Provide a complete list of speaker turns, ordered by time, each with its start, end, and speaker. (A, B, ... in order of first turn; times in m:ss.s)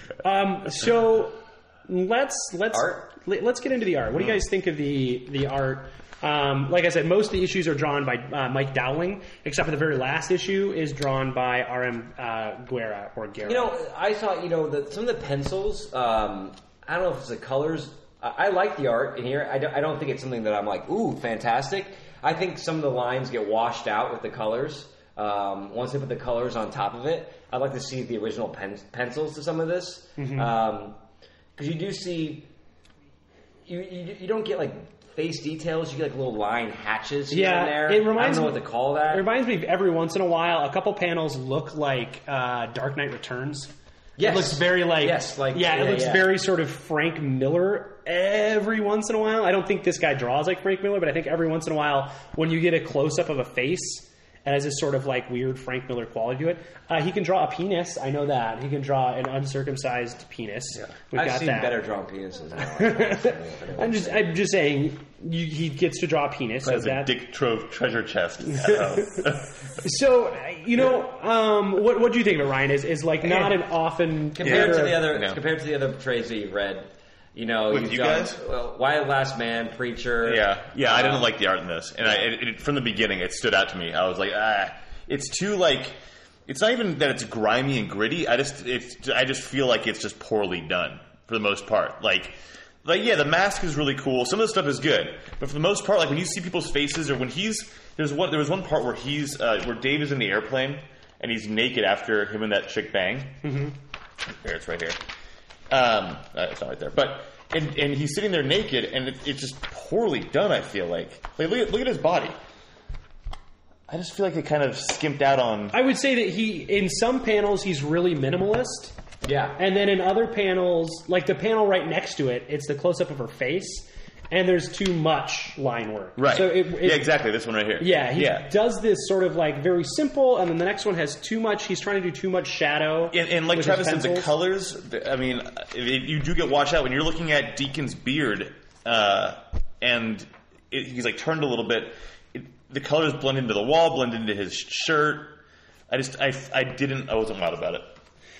0:00.2-0:13.7 A
0:02.7-0:03.0 B
0:13.4-0:31.0 B
0:30.2-0:30.5 A
0:31.6-0:32.5 B
0:33.6-0:39.2 B
0:37.3-1:01.8 A
0:44.2-0:46.3 B
1:01.1-1:04.4 B
1:02.6-1:07.1 A
1:06.6-1:09.5 C
1:08.5-1:15.1 A
1:13.2-1:13.6 C
1:14.3-1:21.3 B
1:14.4-1:15.4 C
1:17.7-1:18.4 C
1:20.2-1:26.0 C
1:26.5-1:43.4 C
1:43.4-1:43.7 A
1:44.4-1:45.0 C
1:45.7-1:52.4 C
1:53.9-1:55.8 C
1:55.7-1:58.9 A
1:59.2-1:59.6 B
1:59.6-2:07.1 A
2:06.2-2:08.5 C
2:07.8-2:14.3 A
2:13.1-2:27.9 C